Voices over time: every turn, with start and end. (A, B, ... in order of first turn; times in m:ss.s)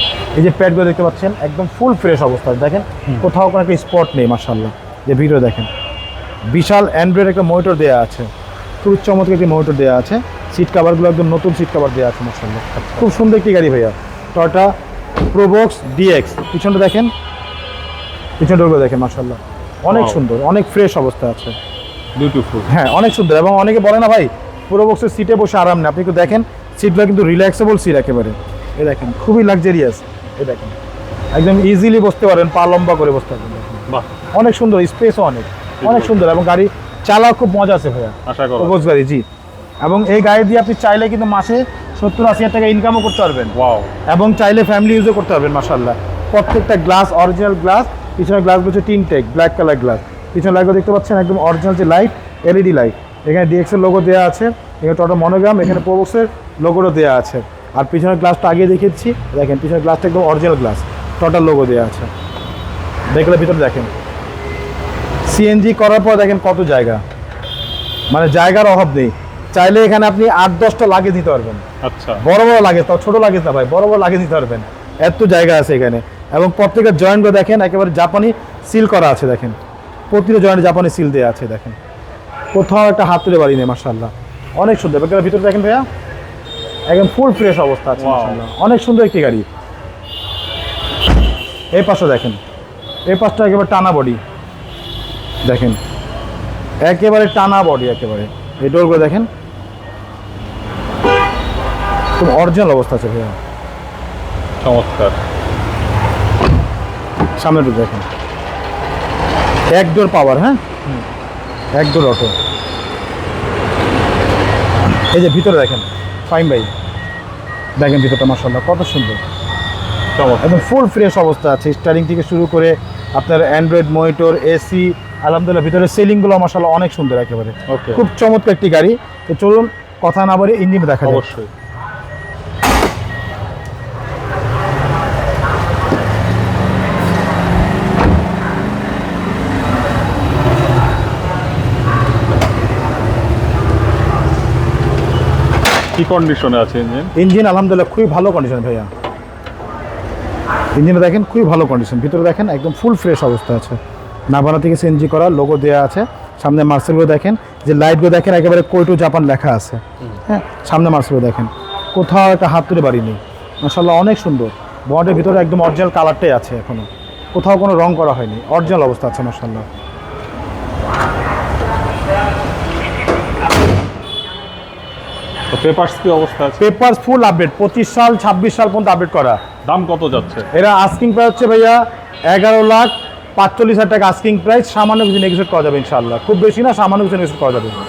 0:00.4-0:05.7 A
0:06.5-0:08.3 A
0:08.8-0:14.7 A
0:12.8-0:13.1 B
0:15.3-0:17.1 A
0:18.4-0:21.6 A
0:19.9-0:20.2 B
0:22.2-0:22.8 B
0:22.7-0:30.8 A
0:31.3-0:39.2 A
0:35.8-0:36.2 B
0:38.3-0:38.8 B
0:39.8-0:43.6 A
0:43.5-0:43.9 B
0:44.1-1:02.1 A
1:03.1-1:03.9 A
1:05.3-1:07.0 A
1:08.1-1:11.6 A
1:11.8-1:12.2 B
1:12.2-1:19.6 A
1:20.1-1:21.8 A
1:22.5-1:25.9 A
1:26.9-1:29.5 A
1:28.0-1:28.4 B
1:31.7-1:32.4 A
1:33.1-1:34.2 A
1:35.4-1:35.8 A
1:36.8-1:39.3 A
1:42.2-1:43.4 A
1:44.6-1:45.2 B
1:47.4-1:48.1 A
1:49.7-1:50.6 A
1:51.8-1:52.3 A
1:55.1-1:56.7 A
1:57.8-1:59.2 A
2:00.2-2:00.6 B
2:00.4-2:11.2 A
2:07.7-2:08.0 B
2:11.0-2:11.5 B
2:26.0-2:27.1 B
2:27.2-2:28.9 A
2:30.8-2:33.8 A
2:34.3-2:49.7 A
2:55.5-2:56.6 B
2:56.6-2:59.4 A
2:59.6-3:00.5 B
3:00.5-3:07.8 A